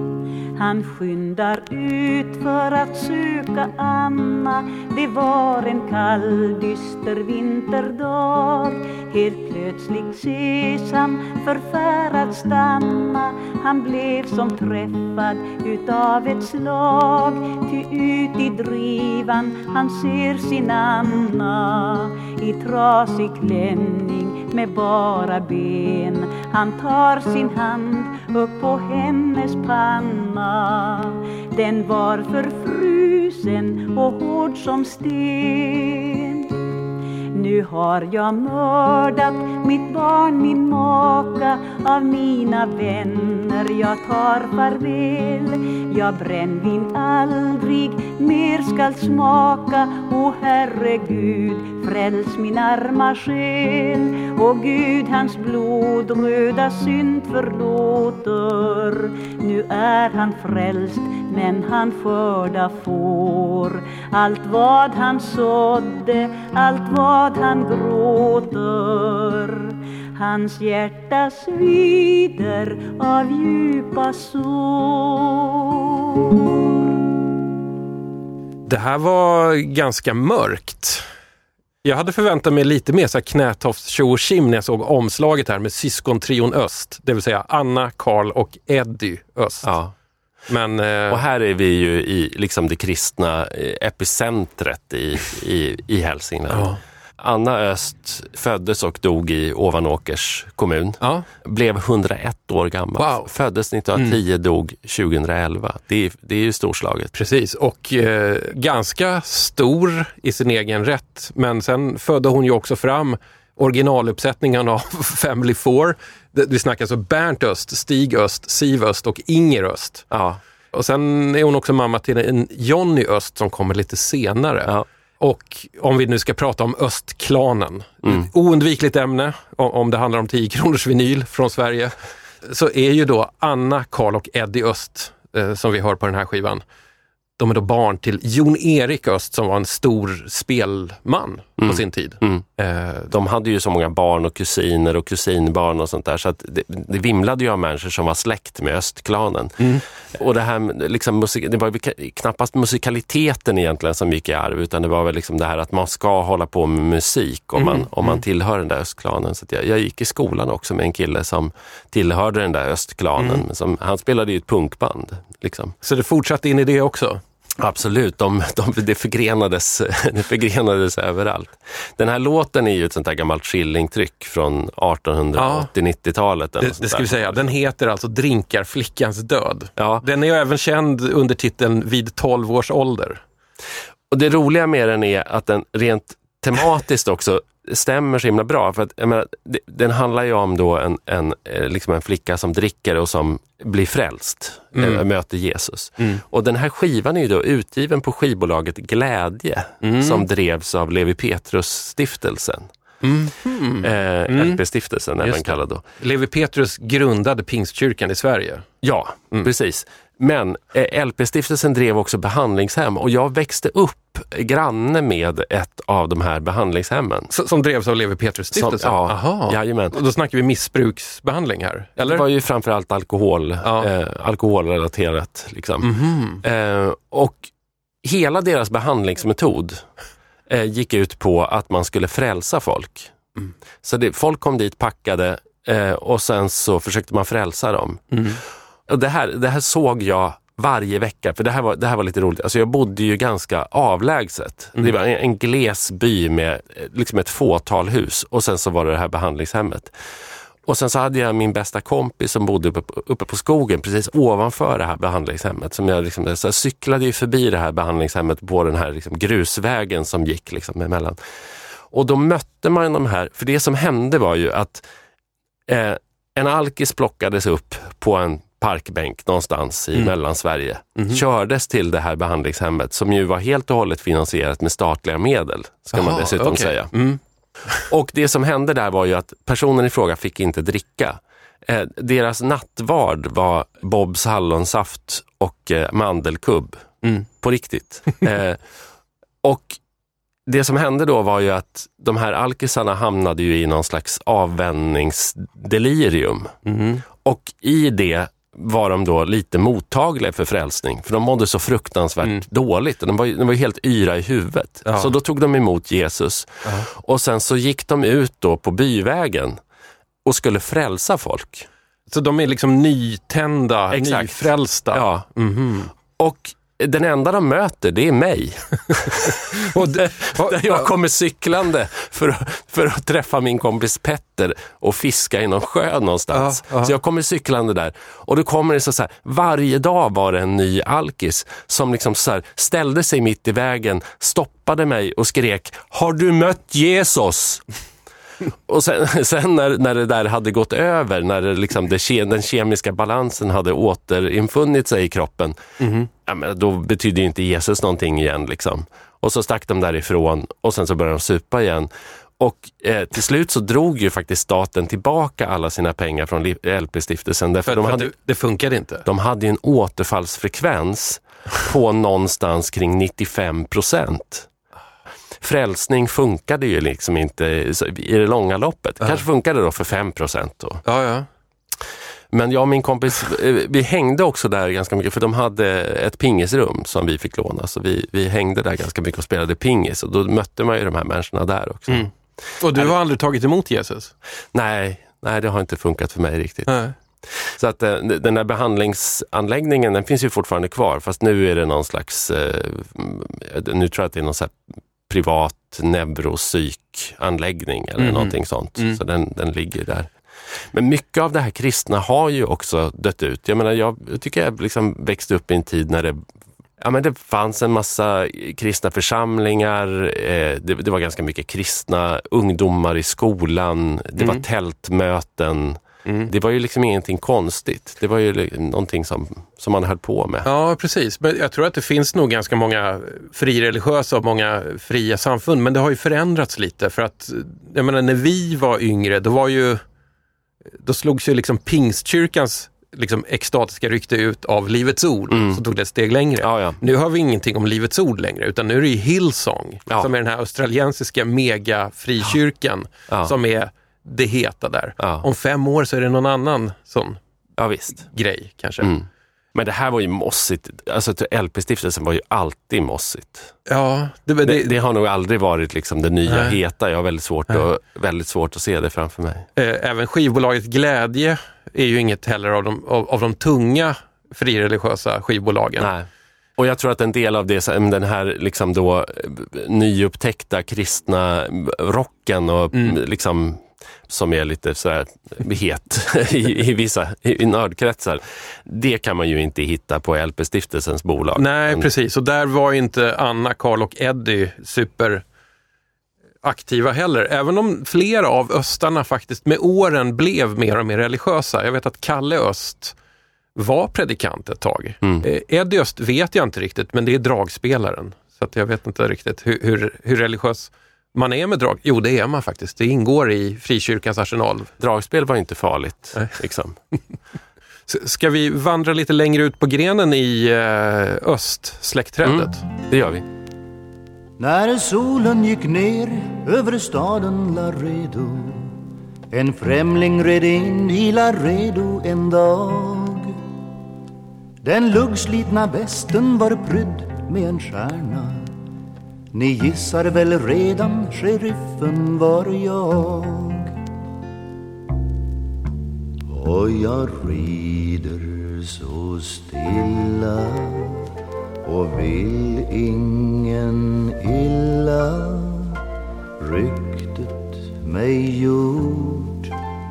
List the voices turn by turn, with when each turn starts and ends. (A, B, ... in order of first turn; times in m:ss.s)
0:00.6-0:36.6 A
0:37.3-1:16.3 A
1:18.7-1:21.1 B
1:21.8-1:29.7 B
1:29.6-1:29.9 C
1:30.5-1:31.2 B
1:31.1-1:47.1 C
1:36.5-1:36.8 B
1:41.0-1:41.3 B
1:43.0-1:43.3 B
1:47.1-2:00.1 B
2:00.1-2:00.4 C
2:00.7-2:16.6 B
2:17.4-2:23.1 B
2:21.6-2:22.4 C
2:23.1-2:29.6 C
2:30.1-2:45.8 C
2:37.6-2:38.2 B
2:43.2-2:43.4 B
2:45.8-2:47.2 B
2:47.6-2:57.5 C
2:55.4-2:55.7 B
2:56.6-3:03.2 B
2:59.8-3:00.1 C
3:04.1-3:22.7 C
3:14.7-3:15.0 B
3:19.8-3:20.3 B
3:23.0-3:24.6 B
3:23.8-3:25.8 C
3:25.2-3:28.7 B
3:28.8-3:37.3 C
3:37.3-3:42.2 B
3:38.5-3:40.0 C
3:42.0-3:47.5 C
3:43.6-3:43.9 B
3:45.8-3:46.4 B
3:48.0-3:49.8 C
3:50.5-3:53.2 C
3:53.8-3:58.2 C
3:58.1-3:58.4 B
3:58.9-4:10.0 C
4:10.7-4:21.2 C
4:21.9-4:24.8 C
4:25.7-4:37.0 C
4:31.0-4:31.2 B
4:35.9-4:37.9 B
4:37.9-4:48.6 C
4:49.4-4:49.8 C
4:50.5-4:56.5 C
4:56.6-4:57.0 B
4:57.2-5:09.6 C
5:04.8-5:05.1 B
5:10.2-5:11.7 C
5:12.1-5:15.9 B
5:13.9-5:15.3 C
5:16.1-5:37.6 C
5:19.5-5:20.9 B
5:26.3-5:27.0 B
5:38.7-5:45.6 C
5:45.8-5:46.1 B
5:46.1-5:58.1 C
5:57.7-5:59.0 B
5:59.0-6:04.5 C
6:05.4-6:10.8 C
6:10.8-6:11.3 B
6:12.3-6:22.1 C
6:21.9-6:24.1 B
6:24.5-6:26.7 C
6:26.7-6:26.9 B
6:27.3-6:40.1 C
6:38.0-6:39.0 B
6:40.7-6:46.2 C
6:46.8-7:00.5 C
6:54.2-6:54.4 B
6:56.0-6:56.3 B
7:00.4-7:09.8 B
7:10.8-7:27.2 B
7:15.3-7:15.6 C
7:16.4-7:16.8 C
7:25.0-7:25.3 C
7:27.6-7:28.1 C
7:28.0-7:28.9 B
7:28.8-7:33.6 C
7:33.7-7:34.8 B
7:34.4-7:39.5 C
7:36.3-7:36.6 B
7:39.6-7:45.9 B
7:45.8-8:01.9 C
7:52.7-7:53.0 B
8:01.4-8:05.2 B
8:06.4-8:13.0 B
8:13.6-8:24.7 B
8:24.8-8:26.8 C
8:27.9-8:32.6 B
8:32.2-8:33.2 C
8:34.4-8:38.8 D
8:39.3-8:43.4 D
8:44.6-8:48.5 D
8:49.3-8:53.8 D
8:56.3-9:01.1 D
9:01.6-9:05.8 D
9:06.4-9:09.5 D